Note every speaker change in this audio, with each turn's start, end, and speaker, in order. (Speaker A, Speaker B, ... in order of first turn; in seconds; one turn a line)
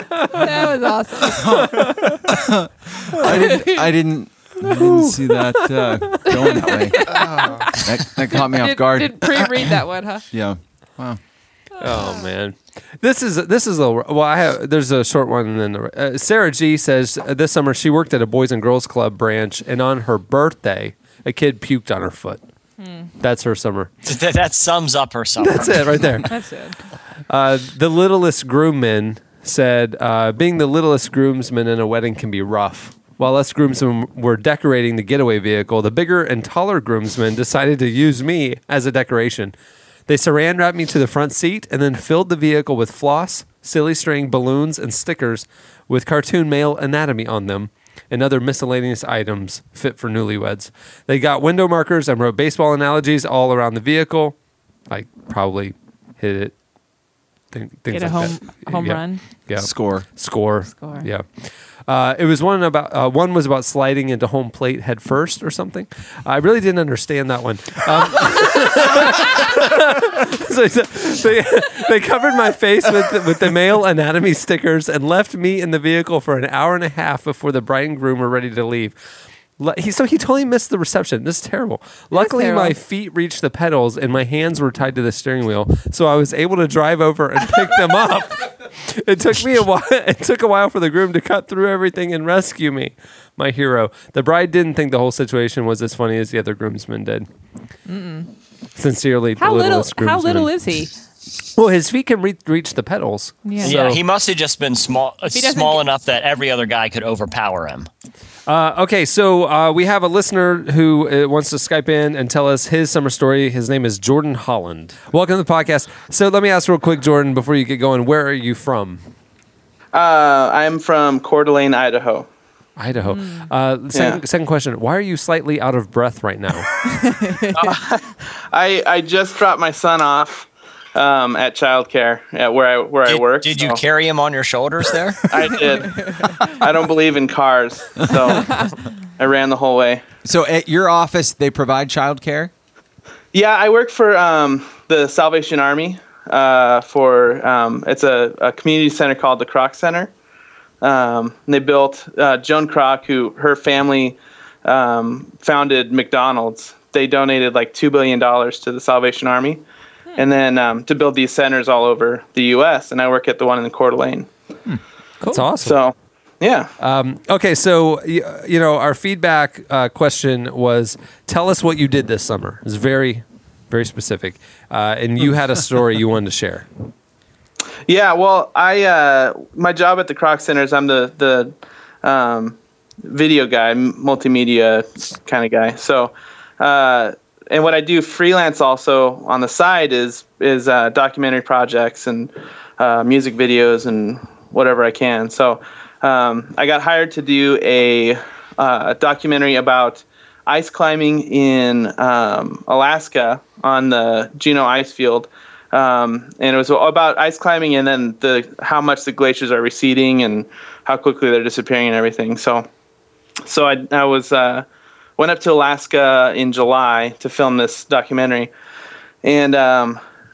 Speaker A: 0.3-2.1
Speaker B: 1.2-9.7
Speaker A: 3.4-3.6
Speaker C: 4.6-5.1
Speaker A: 6.3-10.3
Speaker B: 10.3-11.2
Speaker C: 11.8-22.4
Speaker A: 11.8-12.1
Speaker A: 22.8-23.1
Speaker C: 23.2-23.9
Speaker D: 24.1-26.2
Speaker C: 25.4-26.4
Speaker A: 26.3-26.8
Speaker C: 27.3-39.5
Speaker C: 40.1-54.4
Speaker C: 54.9-56.5
Speaker C: 57.5-61.2
Speaker A: 57.9-59.2
Speaker B: 59.6-60.1
Speaker A: 60.7-61.1
Speaker C: 61.9-79.0
Speaker C: 79.6-97.3
Speaker A: 82.1-82.8
Speaker A: 97.9-98.3
Speaker C: 98.8-100.5
Speaker A: 99.4-100.9
Speaker C: 101.5-104.0
Speaker A: 103.5-103.8
Speaker D: 103.6-107.9
Speaker A: 105.3-105.9
Speaker C: 108.5-119.0
Speaker E: 119.9-122.3
Speaker C: 122.8-126.7
Speaker A: 123.1-123.5
Speaker E: 123.9-124.2
Speaker A: 126.9-127.7
Speaker E: 127.5-133.8
Speaker D: 133.1-135.5
Speaker E: 135.3-140.0
Speaker B: 140.2-142.5
Speaker E: 143.3-150.1
Speaker E: 150.8-159.6
Speaker E: 160.2-164.3
Speaker C: 165.3-165.8
Speaker E: 165.6-166.7
Speaker C: 166.8-176.7
Speaker E: 177.9-212.7
Speaker E: 213.4-214.7
Speaker E: 215.2-218.5
Speaker E: 219.2-220.0